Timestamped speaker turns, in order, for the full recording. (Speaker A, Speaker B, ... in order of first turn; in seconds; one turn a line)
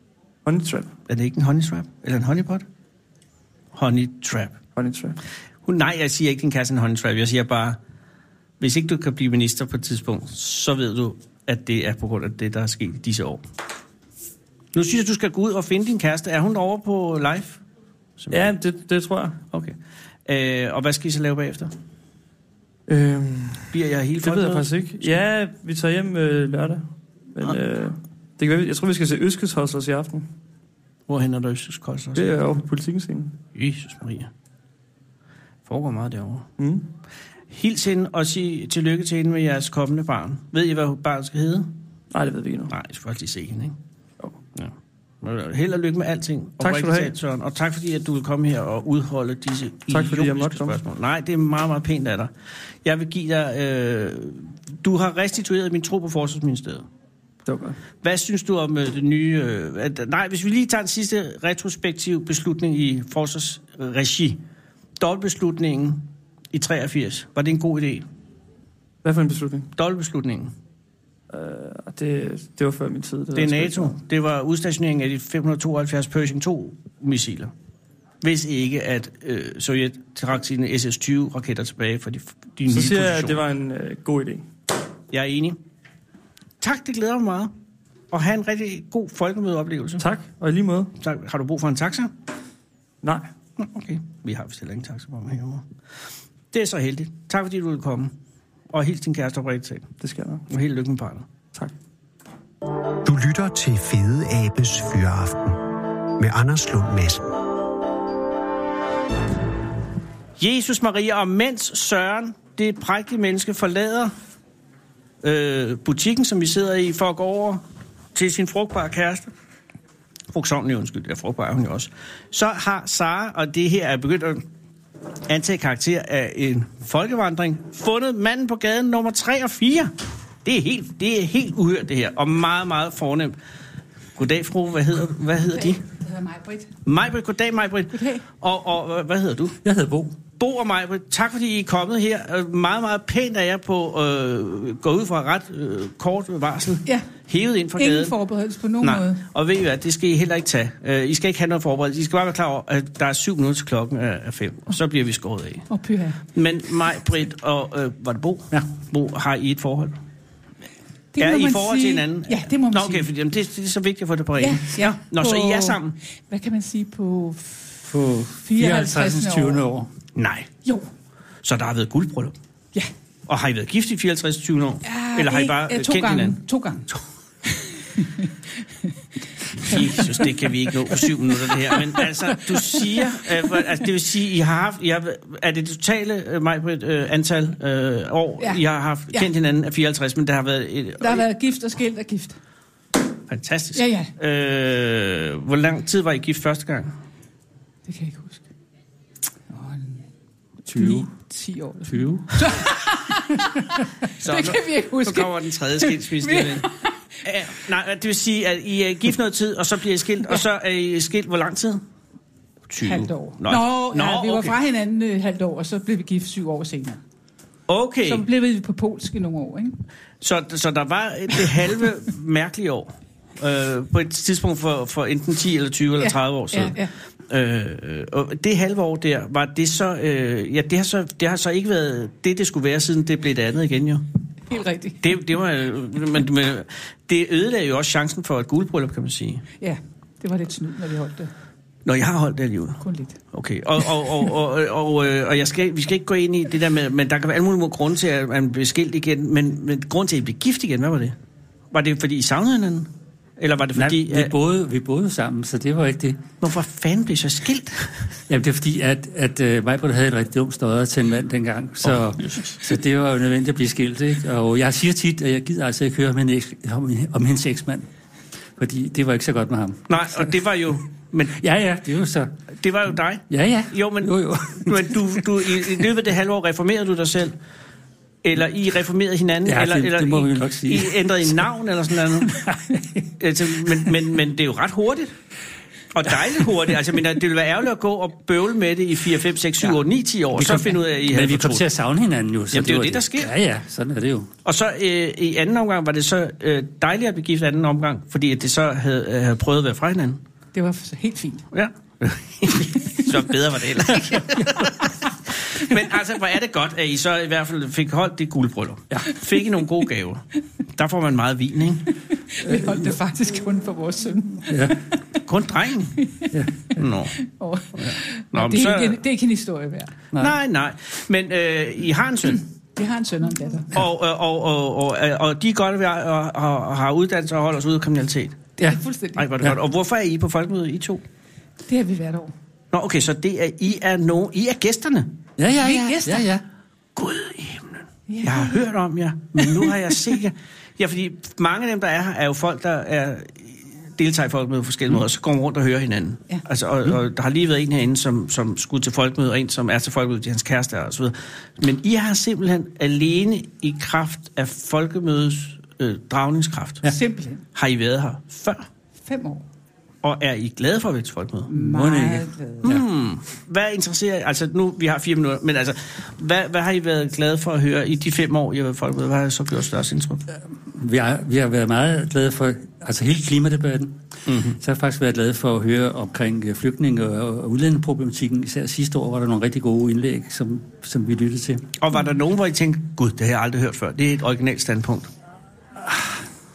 Speaker A: 0.5-0.9
Speaker B: 1.1-2.6
Speaker B: 3.7-4.6
Speaker A: 4.8-5.2
Speaker B: 5.7-7.8
Speaker B: 8.6-13.4
Speaker B: 14.7-17.6
Speaker B: 18.2-18.5
Speaker A: 18.3-19.4
Speaker B: 20.3-21.7
Speaker A: 22.9-30.3
Speaker B: 23.7-25.2
Speaker B: 31.1-32.4
Speaker A: 32.2-33.4
Speaker B: 33.5-34.3
Speaker B: 35.7-36.5
Speaker A: 36.6-36.9
Speaker B: 37.5-41.7
Speaker A: 42.1-42.7
Speaker B: 42.7-43.8
Speaker B: 44.5-52.3
Speaker A: 46.6-47.1
Speaker A: 49.9-50.8
Speaker B: 52.8-56.9
Speaker A: 57.5-57.8
Speaker B: 58.0-64.4
Speaker B: 65.0-68.0
Speaker A: 69.0-69.7
Speaker B: 69.8-70.5
Speaker A: 71.3-74.0
Speaker B: 73.3-77.5
Speaker B: 78.2-83.4
Speaker A: 82.7-84.5
Speaker B: 85.1-85.6
Speaker B: 86.6-87.5
Speaker B: 88.1-90.1
Speaker A: 90.0-90.9
Speaker B: 91.0-92.1
Speaker B: 93.6-95.7
Speaker B: 96.5-98.1
Speaker B: 98.7-99.9
Speaker A: 100.0-100.5
Speaker B: 100.5-101.3
Speaker C: 103.0-107.4
Speaker B: 110.4-114.1
Speaker B: 115.2-117.6
Speaker B: 118.2-119.3
Speaker B: 120.3-124.4
Speaker B: 125.3-129.9
Speaker B: 130.4-133.4
Speaker B: 134.2-135.9
Speaker D: 135.5-136.7
Speaker B: 136.8-139.6
Speaker D: 137.9-138.3
Speaker E: 139.6-140.2
Speaker B: 140.4-148.2
Speaker D: 147.8-149.2
Speaker B: 148.8-155.7
Speaker D: 155.7-156.2
Speaker B: 156.3-160.0
Speaker D: 161.2-163.1
Speaker B: 161.2-166.0
Speaker D: 164.4-167.8
Speaker E: 167.9-169.9
Speaker D: 168.4-169.6
Speaker B: 170.2-170.5
Speaker D: 170.6-170.9
Speaker B: 171.4-172.3
Speaker B: 173.3-176.4
Speaker D: 174.8-176.9
Speaker D: 177.6-178.3
Speaker B: 179.6-191.3
Speaker D: 179.7-180.2
Speaker D: 181.7-183.1
Speaker D: 188.4-189.3
Speaker D: 191.0-192.4
Speaker B: 193.3-196.9
Speaker D: 193.7-194.1
Speaker D: 197.9-198.4
Speaker D: 199.5-200.1
Speaker E: 200.7-201.1
Speaker D: 200.7-206.9
Speaker E: 201.8-202.6
Speaker B: 204.2-206.7
Speaker B: 207.2-211.8
Speaker B: 212.7-214.6
Speaker D: 212.8-217.0
Speaker B: 217.7-218.3
Speaker D: 218.1-219.8
Speaker B: 220.2-226.8
Speaker D: 226.0-226.9
Speaker B: 227.3-234.1
Speaker D: 234.5-235.2
Speaker B: 235.0-239.5
Speaker D: 239.6-241.3
Speaker B: 241.9-251.2
Speaker D: 242.8-243.2
Speaker B: 251.7-254.3
Speaker E: 253.8-256.2
Speaker B: 256.4-258.0
Speaker E: 258.3-267.9
Speaker B: 261.8-262.6
Speaker E: 268.6-270.4
Speaker B: 269.9-271.4
Speaker E: 271.3-272.3
Speaker B: 272.6-277.4
Speaker E: 273.3-275.2
Speaker B: 278.2-282.4
Speaker E: 279.5-281.4
Speaker E: 282.2-283.9
Speaker B: 283.2-285.1
Speaker B: 285.9-291.7
Speaker E: 286.1-286.5
Speaker E: 290.4-294.3
Speaker B: 292.5-293.4
Speaker B: 294.4-300.2
Speaker D: 300.5-301.5
Speaker B: 301.5-311.9
Speaker E: 304.1-304.6
Speaker D: 312.3-314.9
Speaker E: 312.5-312.9
Speaker E: 314.5-314.8
Speaker B: 315.2-316.0
Speaker D: 316.0-316.4
Speaker B: 316.8-317.2
Speaker D: 317.2-319.9
Speaker B: 317.8-319.0
Speaker B: 320.2-322.4
Speaker D: 322.8-323.8
Speaker B: 323.7-328.5
Speaker D: 328.6-329.3
Speaker B: 329.2-331.0
Speaker D: 331.7-332.3
Speaker B: 332.7-335.1
Speaker E: 335.4-336.4
Speaker D: 335.6-336.3
Speaker B: 337.0-356.9
Speaker D: 338.1-338.7
Speaker D: 339.4-340.1
Speaker D: 356.9-357.4
Speaker B: 357.6-358.7
Speaker D: 359.0-359.4
Speaker B: 360.0-361.5
Speaker D: 361.5-362.7
Speaker E: 361.6-362.9
Speaker B: 362.6-370.2
Speaker E: 370.4-374.0
Speaker B: 374.3-374.6
Speaker E: 374.6-381.7
Speaker B: 381.8-385.1
Speaker E: 385.8-386.2